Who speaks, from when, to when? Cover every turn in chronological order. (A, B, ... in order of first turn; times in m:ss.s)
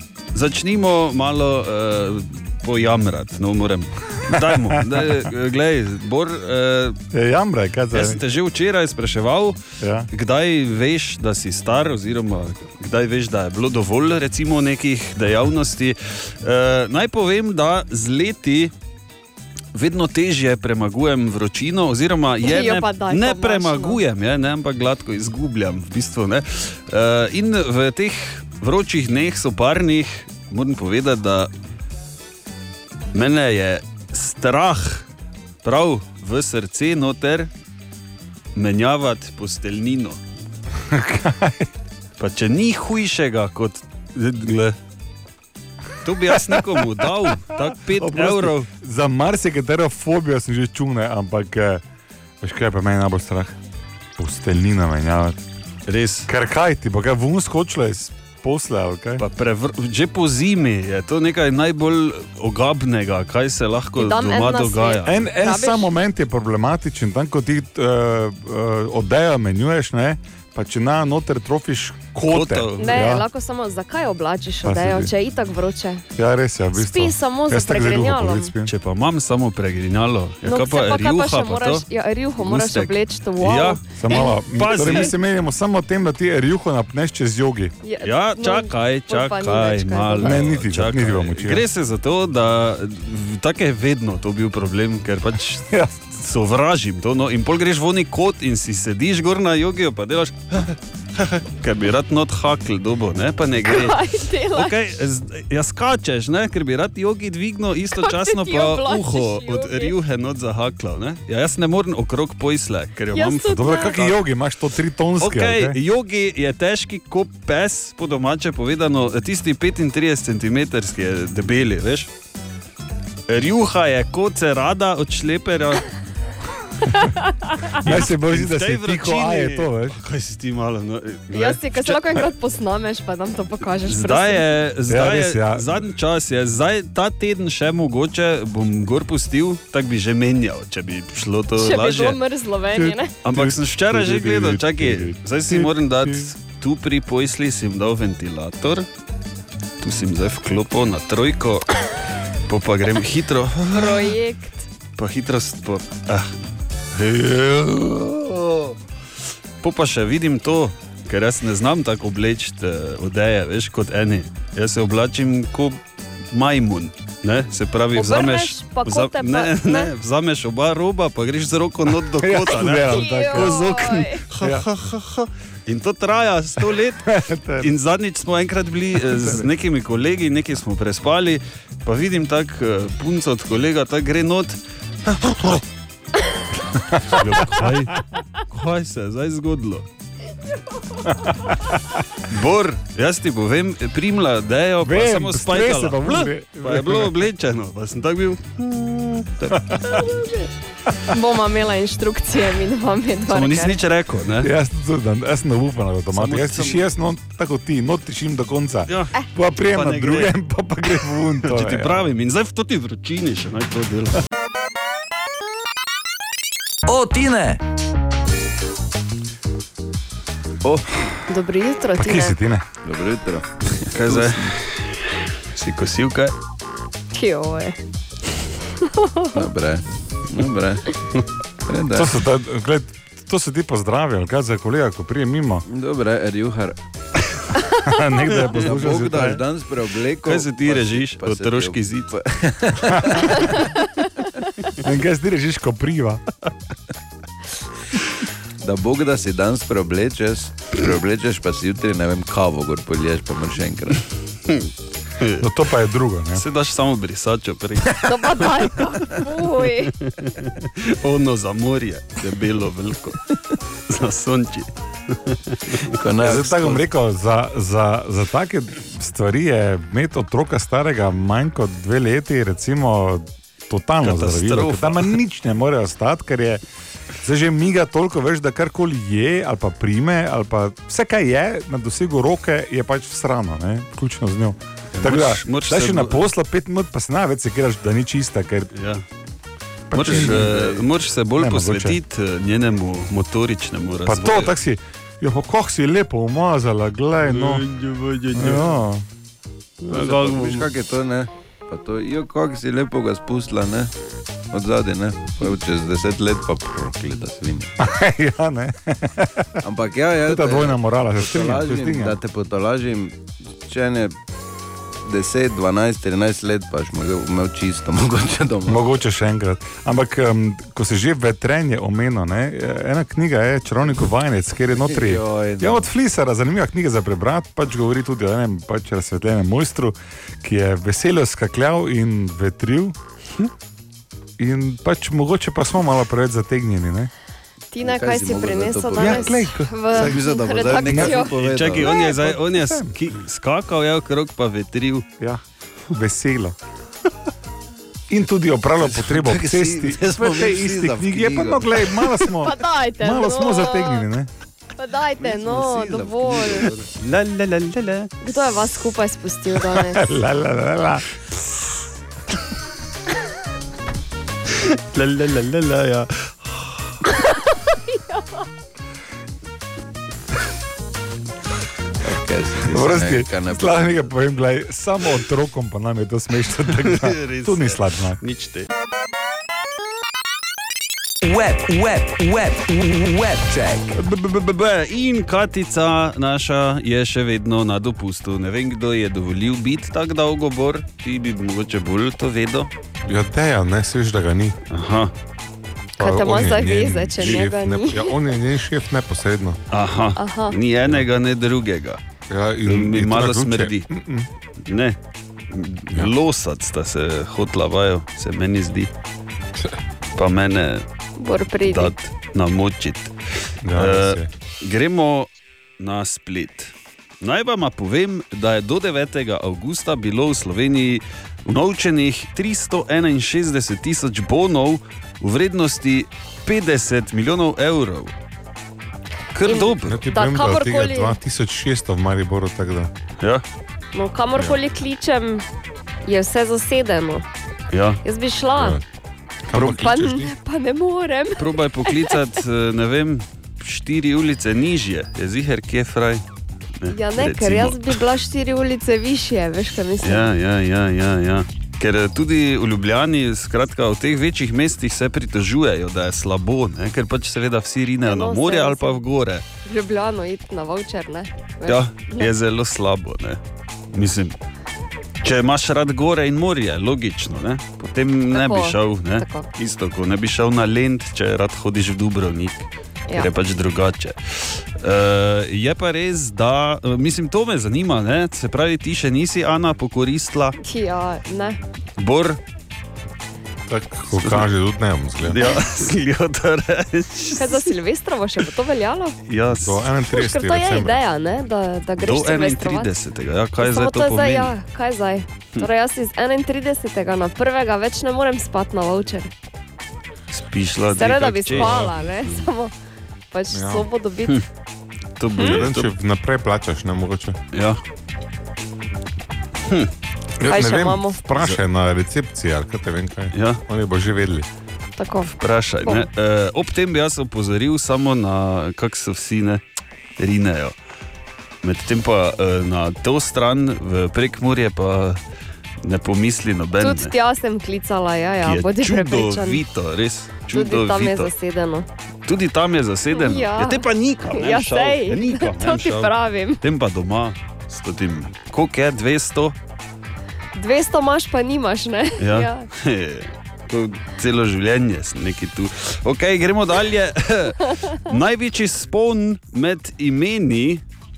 0:00.3-0:07.0 A
0:04.3-0:05.3 B
0:07.1-0:08.2 B
0:07.9-0:09.6 A
0:09.8-0:10.1 B
0:10.1-0:18.7 A
0:19.7-0:31.5 A
0:22.4-0:24.0 C
0:33.1-0:35.1 A
0:35.6-0:37.5 A
0:38.6-0:40.2 A
0:40.8-0:41.7 B
0:42.2-0:44.8 A
0:46.0-0:48.7 A
0:46.3-0:51.8 B
0:52.4-0:53.6 B
0:54.2-0:55.4 B
0:55.9-0:56.3 A
0:56.3-0:59.2 B
0:59.2-1:05.2 A
1:04.0-1:05.9 C
1:05.0-1:13.3 B
1:12.2-1:13.1 A
1:12.8-1:16.0 C
1:14.6-1:15.1 B
1:16.2-1:18.7 B
1:16.7-1:18.5 C
1:18.7-1:21.8 A
1:20.4-1:25.1 C
1:22.4-1:25.1 A
1:24.0-1:27.8 B
1:27.8-1:30.4 C
1:28.0-1:44.0 A
1:30.2-1:31.6 B
1:35.7-1:36.0 B
1:43.7-1:44.7 C
1:44.5-1:54.1 A
1:48.0-1:49.9 C
1:53.1-1:54.0 C
1:53.5-1:55.8 B
1:55.2-2:02.1 A
2:03.3-2:05.9 A
2:07.7-2:12.2 A
2:07.8-2:10.0 B
2:11.3-2:14.5 C
2:13.8-2:22.2 A
2:14.9-2:15.8 B
2:21.6-2:23.1 C
2:22.8-2:26.3 B
2:23.2-2:28.9 A
2:29.8-2:31.9 A
2:32.5-2:34.2 A
2:33.7-2:34.7 C
2:35.0-2:36.3 A
2:36.9-2:38.8 A
2:39.6-2:45.8 A
2:46.3-3:04.6 A
2:48.0-2:49.9 C
2:51.9-2:53.7 B
2:52.8-2:54.2 C
2:54.4-2:54.7 B
2:57.1-2:57.7 B
2:59.0-2:59.5 B
3:05.1-3:05.6 A
3:06.8-3:07.7 B
3:07.1-3:09.8 A
3:11.1-3:12.0 B
3:12.3-3:20.1 A
3:14.8-3:17.2 B
3:19.5-3:20.0 B
3:19.9-3:20.3 C
3:21.1-3:23.8 C
3:23.3-3:24.5 A
3:24.4-3:32.1 B
3:26.1-3:26.9 A
3:28.9-3:30.4 A
3:31.4-3:34.2 A
3:36.9-3:37.6 D
3:40.6-3:40.9 E
3:41.3-3:42.4 C
3:42.0-3:42.7 B
3:42.8-3:44.6 E
3:43.9-3:44.9 A
3:45.5-3:46.3 A
3:47.1-3:47.8 C
3:48.8-3:49.4 C
3:49.3-3:51.0 E
3:51.6-3:52.1 E
3:51.9-3:55.6 B
3:55.7-3:56.8 E
3:57.7-3:59.4 B
3:58.5-4:03.7 E
4:00.2-4:02.1 A
4:03.0-4:03.3 B
4:04.8-4:06.2 B
4:08.6-4:14.0 E
4:14.5-4:15.5 A
4:15.4-4:16.4 B
4:16.4-4:18.5 A
4:18.0-4:19.9 C
4:19.6-4:23.3 A
4:23.9-4:25.9 A
4:25.9-4:26.8 E
4:26.2-4:36.6 B
4:34.0-4:35.2 A
4:37.2-4:48.7 B
4:44.9-4:46.3 A
4:48.7-4:49.0 A
4:49.9-4:50.8 B
4:49.9-4:54.6 A
4:50.1-4:50.7 E
4:51.4-4:52.0 B
4:54.0-4:57.6 B
4:57.2-4:58.8 A
4:58.3-4:59.0 B
4:59.8-5:00.7 A
4:59.8-5:03.9 E
5:04.5-5:07.7 E
5:07.8-5:09.6 B
5:09.6-5:14.2 E
5:10.2-5:12.2 B
5:15.0-5:18.9 E
5:18.7-5:33.0 B
5:24.8-5:25.9 E
5:34.4-5:37.1 B
5:37.7-5:41.4 C
5:37.8-5:42.0 E
5:39.0-5:40.2 B
5:40.8-5:41.3 B
5:41.4-5:45.1 A
5:41.9-5:42.9 B
5:45.2-5:46.6 B
5:48.1-5:54.3 B
5:48.8-5:52.2 E
5:52.4-5:54.1 C
5:54.8-5:56.7 C
5:55.2-5:56.9 E
5:57.0-5:58.1 A
5:58.2-6:00.0 C
5:59.6-6:01.4 B
6:04.6-6:06.8 A
6:12.0-6:14.1 E
6:12.7-6:18.2 B
6:16.8-6:18.7 A
6:21.2-6:24.0 D
6:24.0-6:32.7 A
6:33.0-6:34.6 B
6:34.7-6:35.1 A
6:36.0-6:39.6 B
6:36.0-6:38.2 C
6:39.7-6:42.0 A
6:40.2-6:40.6 C
6:42.3-6:44.3 B
6:42.7-6:43.9 A
6:44.6-6:45.0 A
6:45.5-6:48.9 A
6:50.2-6:50.8 A
6:51.2-6:51.9 C
6:51.6-6:53.2 A
6:53.6-6:54.3 B
6:53.7-7:08.1 A
7:09.3-7:10.0 A
7:09.4-7:11.2 C
7:09.8-7:12.9 B
7:13.9-7:15.4 C
7:16.1-7:17.2 C
7:17.7-7:18.0 A
7:18.0-7:18.8 C
7:18.6-7:18.8 B
7:19.5-7:20.3 B
7:19.6-7:22.1 C
7:21.4-7:26.2 A
7:26.8-7:28.0 A
7:26.9-7:30.3 C
7:30.0-7:39.4 A
7:38.0-7:39.0 C
7:39.7-7:42.3 C
7:41.7-7:43.4 A
7:43.9-7:44.4 A
7:45.2-8:00.6 A
7:48.3-7:49.5 C
8:00.6-8:01.6 C
8:02.0-8:02.4 A
8:03.7-8:05.4 B
8:04.1-8:04.5 A
8:05.2-8:07.7 A
8:07.4-8:09.2 C
8:09.3-8:09.9 A
8:09.5-8:11.0 B
8:10.1-8:12.9 C
8:12.0-8:14.5 A
8:13.6-8:19.3 C
8:20.3-8:22.4 A
8:21.0-8:22.7 C
8:21.5-8:21.9 B
8:23.3-8:24.4 C
8:23.5-8:23.9 B
8:25.2-8:25.9 A
8:25.4-8:27.4 B
8:27.5-8:27.8 A
8:30.4-8:34.5 B
8:30.4-8:31.2 C
8:33.3-8:33.6 A
8:35.0-8:35.3 C
8:35.3-8:39.6 A
8:40.2-8:40.8 A
8:41.6-8:45.2 A
8:45.8-8:47.1 A
8:46.8-8:49.6 C
8:48.4-8:51.3 A
8:50.5-8:51.9 C
8:52.3-8:59.6 A
8:53.1-8:56.6 C
9:00.6-9:02.7 C
9:02.2-9:10.8 A